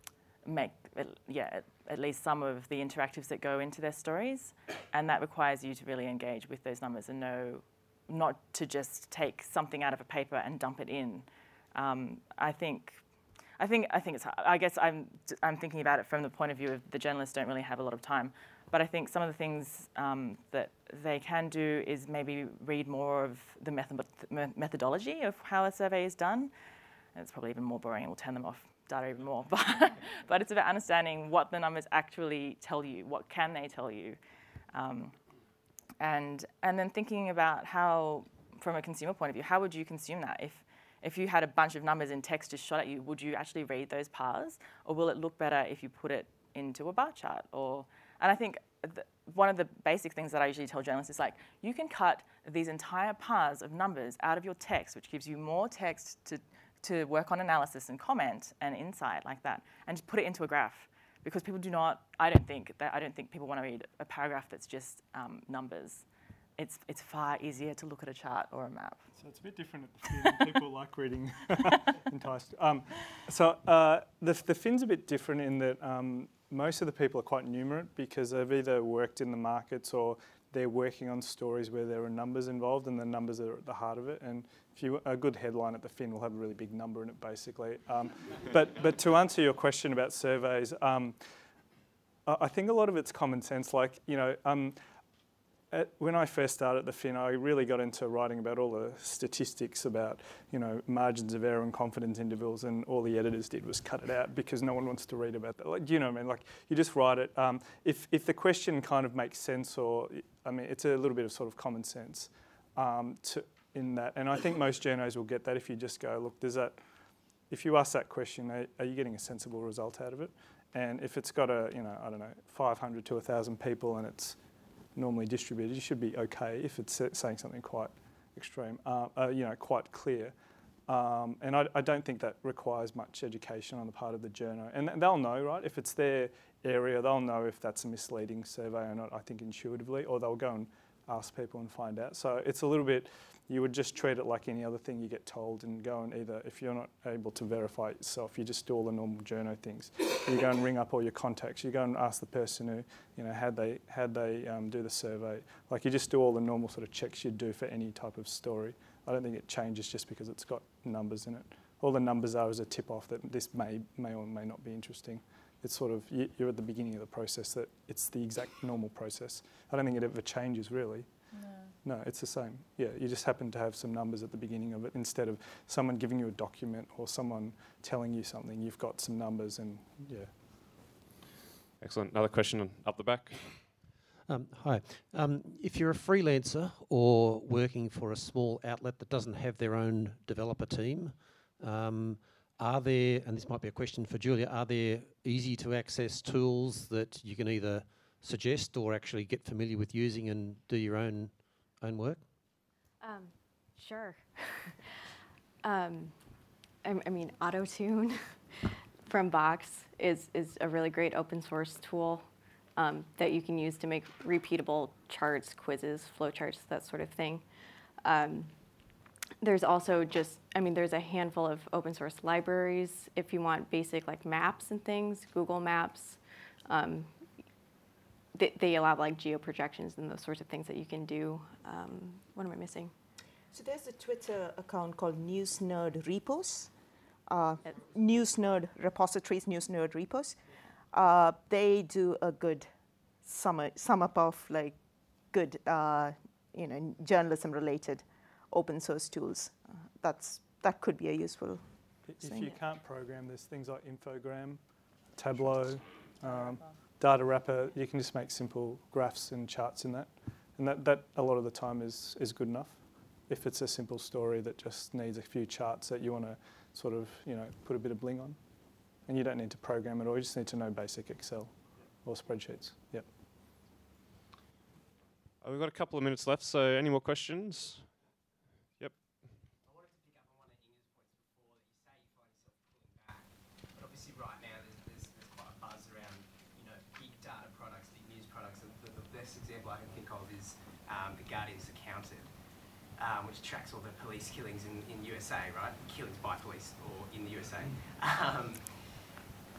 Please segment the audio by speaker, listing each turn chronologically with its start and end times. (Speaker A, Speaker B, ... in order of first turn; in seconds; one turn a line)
Speaker A: 0.5-13.0
Speaker A: 13.6-26.5
Speaker A: 27.1-34.2
Speaker A: 34.7-35.1
Speaker A: 36.0-66.0
Speaker A: 66.6-69.1
Speaker B: 69.2-91.3
Speaker B: 92.3-94.8
Speaker B: 95.7-116.8
Speaker B: 117.5-124.4
Speaker B: 125.0-130.4
Speaker B: 130.9-171.3
Speaker A: 171.4-171.7
Speaker B: 171.8-180.9
Speaker C: 181.8-183.7
Speaker D: 184.3-202.2
Speaker E: 203.0-204.8
Speaker E: 205.6-206.2
Speaker E: 206.8-212.2
Speaker E: 212.8-217.4
Speaker E: 218.0-218.5
Speaker E: 219.4-227.1
Speaker E: 228.3-232.9
Speaker F: 233.5-236.7
Speaker F: 237.3-240.4
Speaker F: 240.9-242.7
Speaker F: 243.2-244.8
Speaker F: 245.3-251.7
Speaker B: 252.1-254.6
Speaker F: 252.2-252.6
Speaker B: 255.1-268.4
Speaker B: 269.0-273.1
Speaker C: 275.4-277.9
Speaker G: 279.6-292.3
Speaker G: 293.0-299.0